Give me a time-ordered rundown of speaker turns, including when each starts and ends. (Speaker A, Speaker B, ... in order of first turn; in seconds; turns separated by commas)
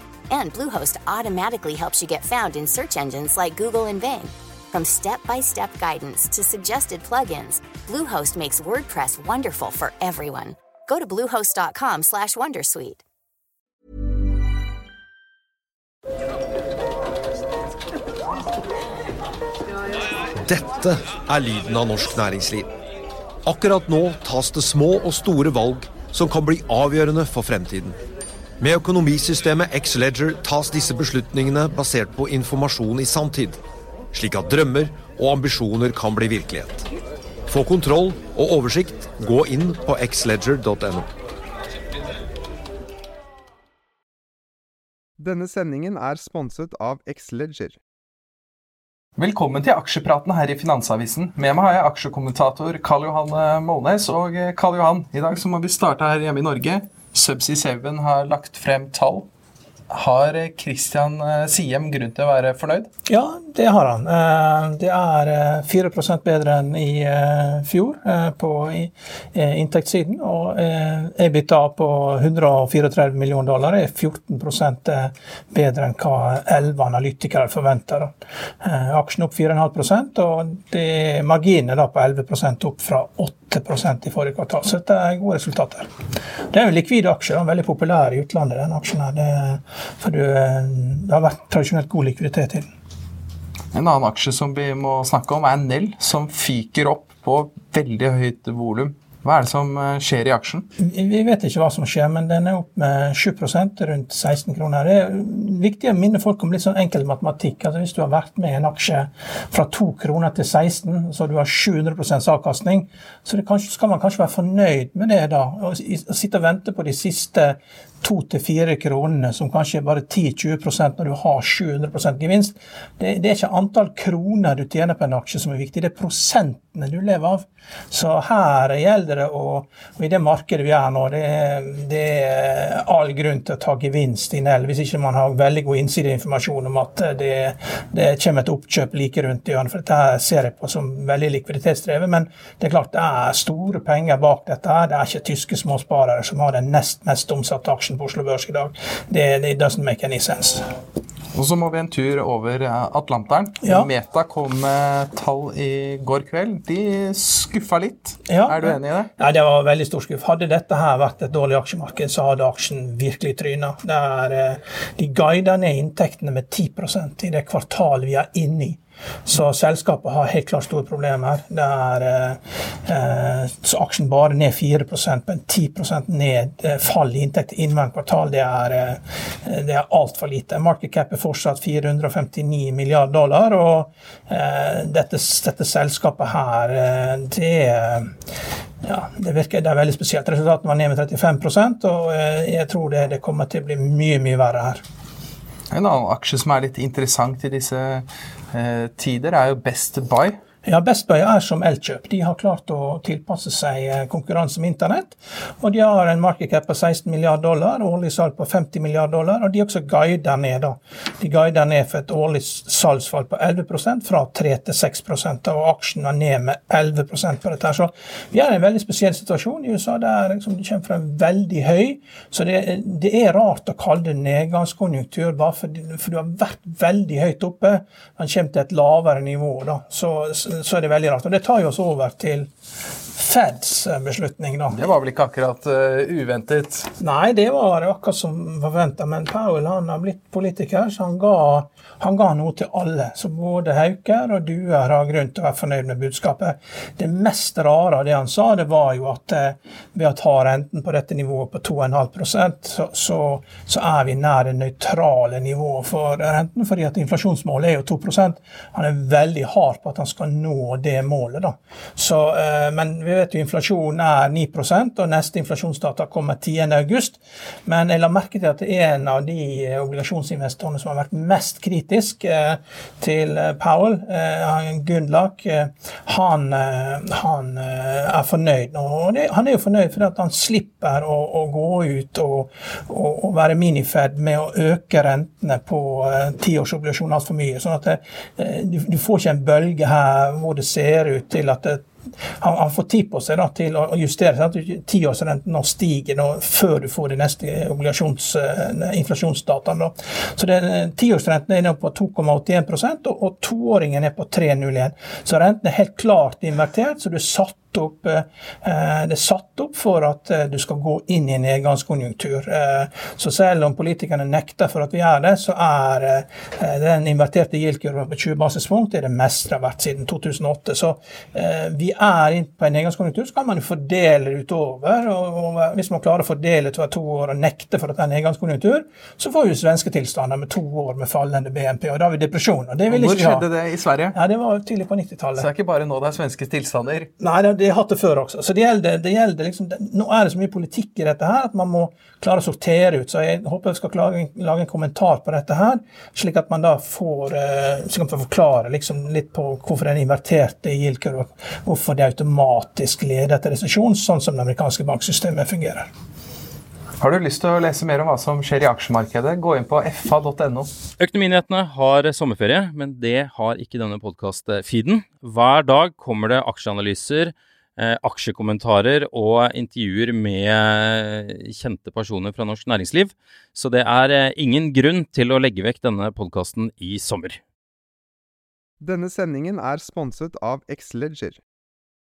Speaker A: 0.3-13.0, Speaker B: 20.4-22.7, Speaker B: 23.4-28.0, Speaker B: 28.6-33.6, Speaker B: 34.1-36.9, Speaker B: 37.5-41.1, Speaker C: 45.2-47.8, Speaker D: 49.2-59.3, Speaker D: 59.9-62.9, Speaker E: 63.1-85.9, Speaker E: 86.5-92.7, Speaker D: 93.7-100.7, Speaker E: 100.8-150.7, Speaker D: 151.3-159.1, Speaker E: 153.6-153.9, Speaker E: 158.3-188.1, Speaker E: 188.8-194.8, Speaker D: 195.7-200.4, Speaker E: 200.7-232.5, Speaker E: 233.1-234.8, Speaker D: 234.7-236.9, Speaker E: 237.0-333.4, Speaker D: 332.9-334.1, Speaker E: 334.1-335.5, Speaker D: 335.4-337.1, Speaker E: 337.2-355.9, Speaker D: 357.0-360.7, Speaker F: 361.0-377.4, Speaker C: 378.8-381.4